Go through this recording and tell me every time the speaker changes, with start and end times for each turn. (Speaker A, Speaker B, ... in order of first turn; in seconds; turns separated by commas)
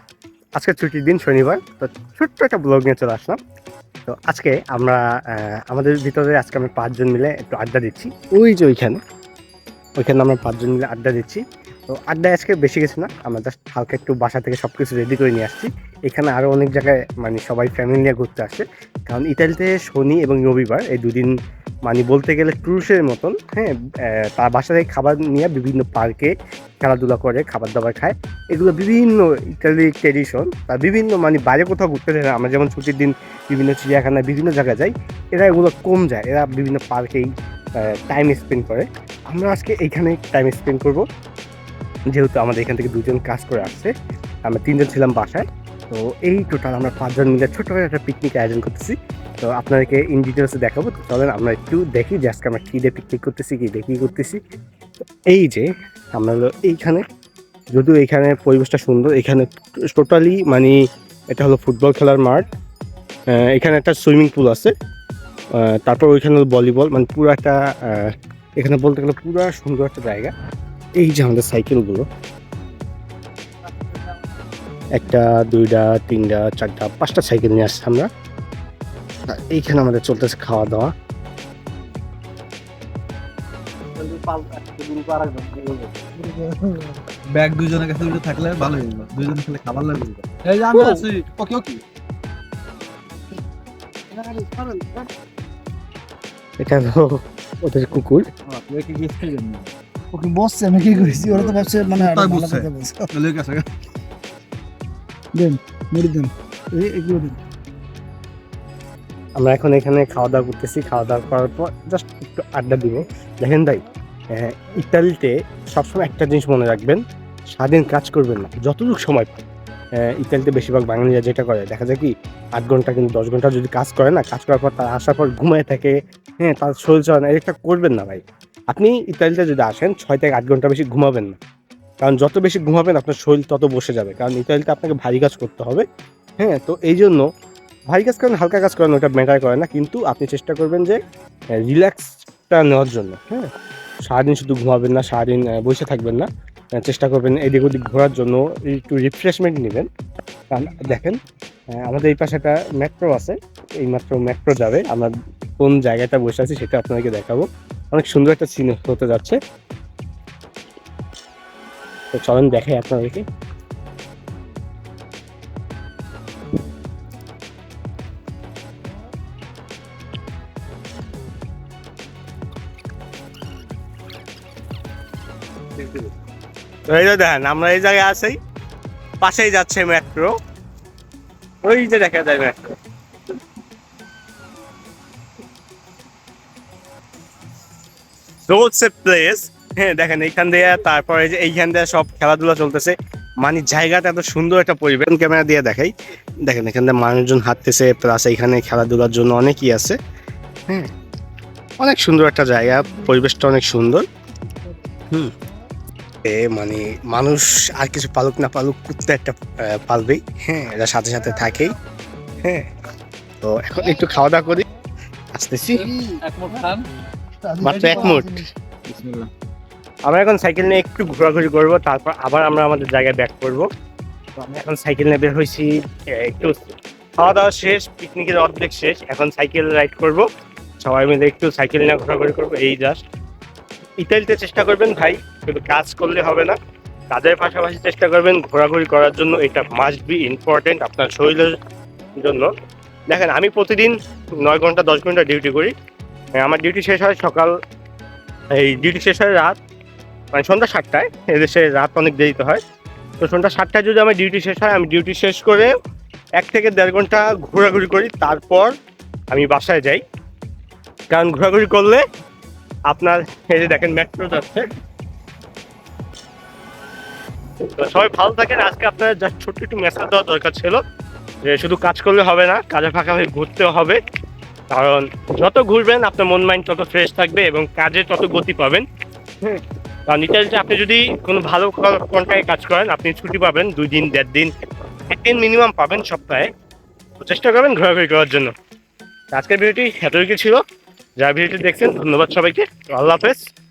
Speaker A: 0.6-3.4, Speaker A: 4.0-9.0, Speaker A: 10.0-21.3, Speaker A: 21.9-37.3, Speaker A: 37.8-41.0, Speaker A: 42.1-43.9, Speaker A: 44.5-54.4, Speaker A: 55.3-57.0, Speaker A: 57.7-60.8, Speaker A: 61.3-62.5, Speaker A: 63.3-64.7, Speaker A: 65.7-70.3, Speaker A: 71.0-72.0, Speaker A: 74.9-78.1, Speaker A: 79.3-80.9, Speaker B: 84.0-91.8, Speaker B: 94.1-95.1, Speaker A: 96.6-98.3, Speaker B: 98.5-99.7, Speaker C: 100.1-103.1, Speaker B: 100.9-103.7, Speaker C: 105.3-107.4, Speaker A: 109.4-113.8, Speaker A: 114.3-117.0, Speaker A: 117.5-119.3, Speaker A: 120.0-131.4, Speaker A: 132.0-135.8, Speaker A: 136.4-137.3, Speaker A: 137.9-141.0, Speaker A: 141.6-143.5, Speaker A: 144.1-146.3, Speaker A: 146.8-149.9, Speaker A: 150.5-151.2, Speaker A: 151.7-159.4, Speaker A: 162.1-163.2, Speaker A: 175.8-176.1, Speaker A: 176.9-178.4, Speaker A: 179.2-180.3, Speaker A: 181.6-182.5, Speaker A: 188.5-195.9, Speaker A: 196.5-200.0, Speaker A: 201.8-204.0, Speaker A: 206.2-211.7, Speaker A: 212.4-212.7, Speaker A: 213.4-214.7, Speaker A: 215.3-215.9, Speaker B: 215.8-216.9, Speaker C: 215.9-216.2, Speaker C: 217.3-218.4, Speaker A: 217.6-218.4, Speaker B: 218.8-219.3, Speaker A: 220.1-223.7, Speaker A: 224.4-226.6, Speaker A: 227.2-230.2, Speaker A: 230.8-233.0, Speaker A: 234.0-236.6, Speaker A: 237.1-241.6, Speaker A: 242.2-242.5, Speaker A: 243.1-245.7, Speaker A: 246.4-247.5, Speaker A: 248.5-249.6, Speaker A: 250.3-252.6, Speaker A: 253.2-255.7, Speaker A: 256.4-258.7, Speaker A: 259.3-260.0, Speaker A: 261.1-262.0, Speaker A: 262.9-264.7, Speaker A: 267.8-270.8, Speaker A: 271.4-274.0, Speaker A: 274.7-278.9, Speaker A: 279.4-284.5, Speaker A: 285.1-286.5, Speaker A: 287.2-288.5, Speaker A: 289.3-290.6, Speaker A: 291.2-293.4